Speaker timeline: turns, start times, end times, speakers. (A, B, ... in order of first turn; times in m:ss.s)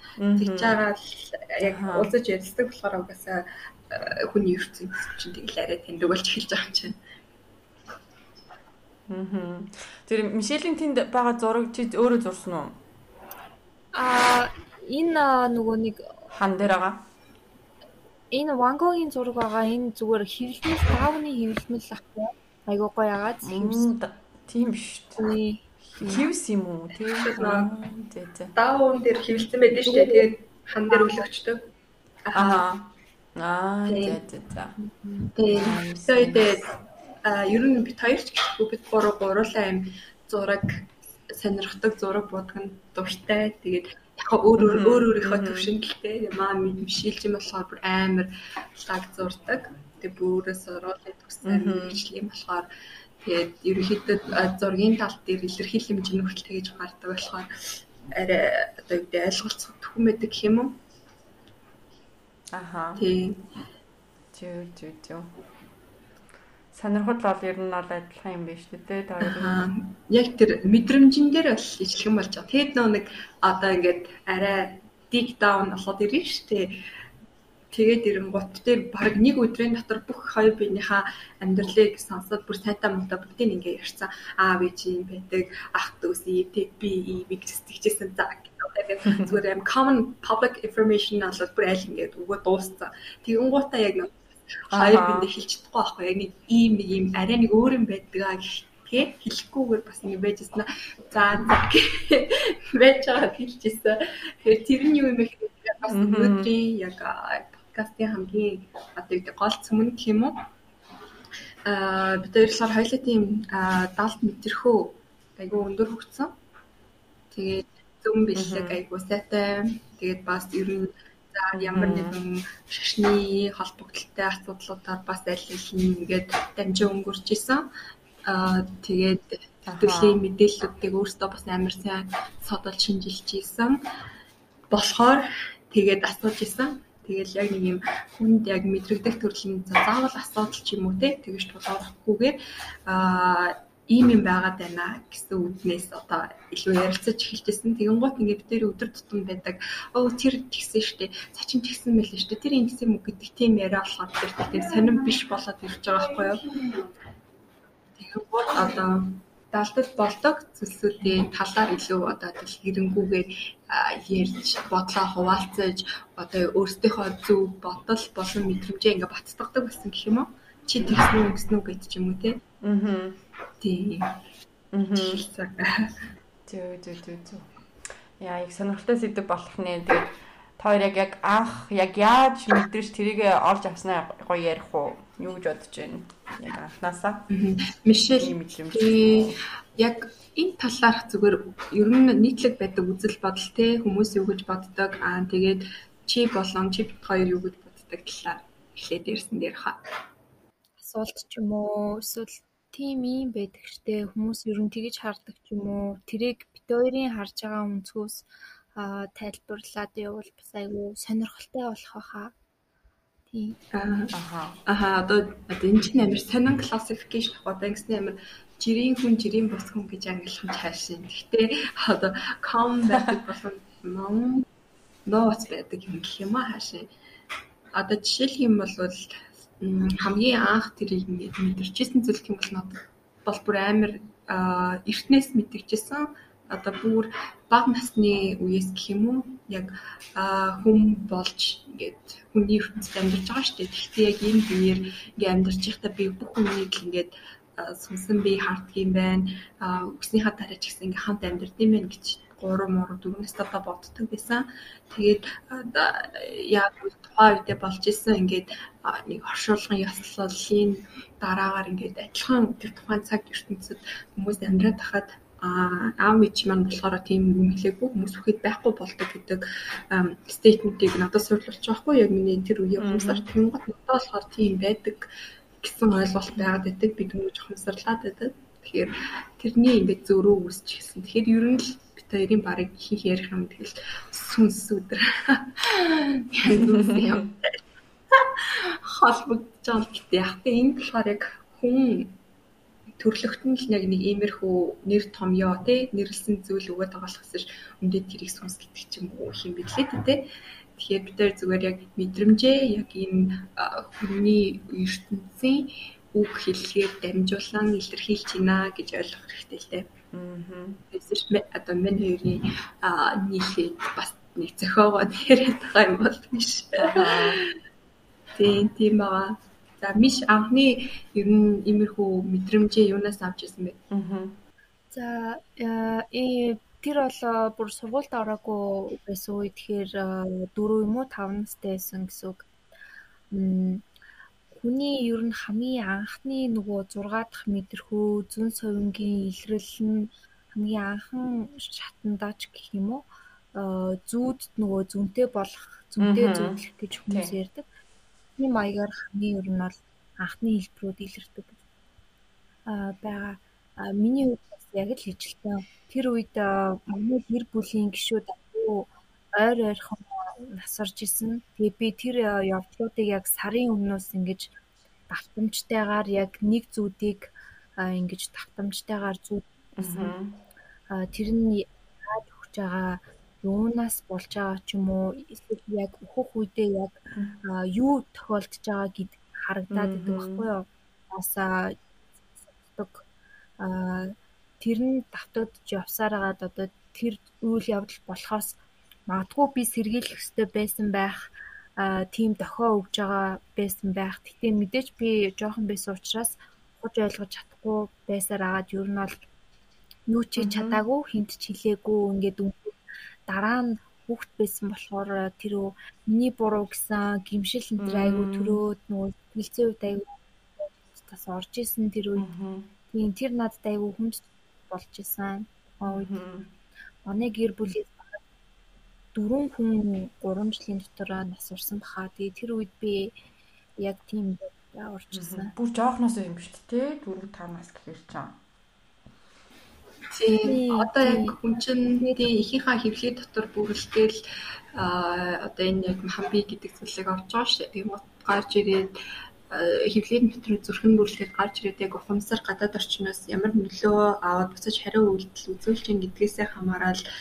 0:00.2-0:00.8 A
0:00.4-0:07.0 B
0:01.6-0:02.1 A
0:09.1-0:12.8 A
0:13.9-0:16.2 C
0:16.4-0:17.0 A
0:18.3-0:23.9 C
0:23.4-0:25.2 A
0:25.2-0:26.2 C
0:26.0-0:28.5 A
0:27.2-0:27.7 B
0:28.6-0:31.7 B
0:29.7-0:30.3 C
0:30.9-0:31.2 C
0:32.2-0:32.6 B
0:32.4-0:34.8 A
0:33.9-0:34.2 B
0:34.8-0:35.4 C
0:35.4-0:36.7 B
0:35.5-0:36.6 A
0:37.2-0:52.7 B
0:44.6-0:45.7 A
0:51.4-0:52.0 A
0:53.2-1:00.8 B
1:02.5-1:03.0 A
1:03.0-1:03.4 B
1:04.3-1:05.3 A
1:06.7-1:09.6 A
1:09.2-1:16.8 B
1:17.7-1:50.4 B
1:34.7-1:35.3 A
1:45.9-1:46.5 A
1:51.6-1:56.3 B
1:57.3-2:07.7 B
1:58.4-1:58.8 A
2:01.5-2:02.2 A
2:08.2-2:13.8 B
2:09.7-2:10.2 A
2:14.7-2:36.7 B
2:38.0-2:52.4 B
2:52.6-2:53.2 A
2:53.6-2:54.1 B
2:54.7-2:55.2 A
2:54.9-2:56.0 B
2:56.5-2:57.5 A
2:58.2-3:07.3 A
3:07.3-3:19.8 B
3:08.1-3:09.4 A
3:20.8-3:32.4 C
3:33.3-3:33.6 C
3:33.7-3:34.1 B
3:34.1-3:34.6 A
3:34.6-3:44.5 B
3:42.9-3:43.2 A
3:45.0-3:46.9 B
3:47.7-4:47.6 B
4:32.8-4:33.3 A
4:46.5-4:47.2 A
4:48.1-4:52.2 B
4:53.0-5:09.9 B
5:10.1-5:10.8 A
5:10.9-5:17.5 B
5:16.8-5:17.4 A
5:18.4-5:23.8 B
5:23.9-5:24.4 A
5:24.9-5:32.5 C
5:33.3-5:33.8 C
5:34.5-5:47.6 C
5:46.0-5:47.3 A
5:48.4-5:51.6 C
5:52.7-6:04.5 C
6:05.1-6:10.1 C
6:09.8-6:10.4 A
6:10.9-6:21.8 C
6:19.7-6:20.4 A
6:22.6-6:23.0 C
6:23.6-6:39.2 C
6:40.1-6:52.3 C
6:40.4-6:40.8 A
6:47.8-6:48.6 A
6:52.2-6:52.7 A
6:52.9-6:56.1 C
6:55.9-6:56.5 A
6:57.0-6:58.2 C
6:59.1-7:03.2 C
7:03.8-7:05.5 C
7:05.1-7:08.4 A
7:10.1-7:14.2 B
7:10.4-7:11.4 C
7:14.7-7:19.0 B
7:19.5-7:27.0 B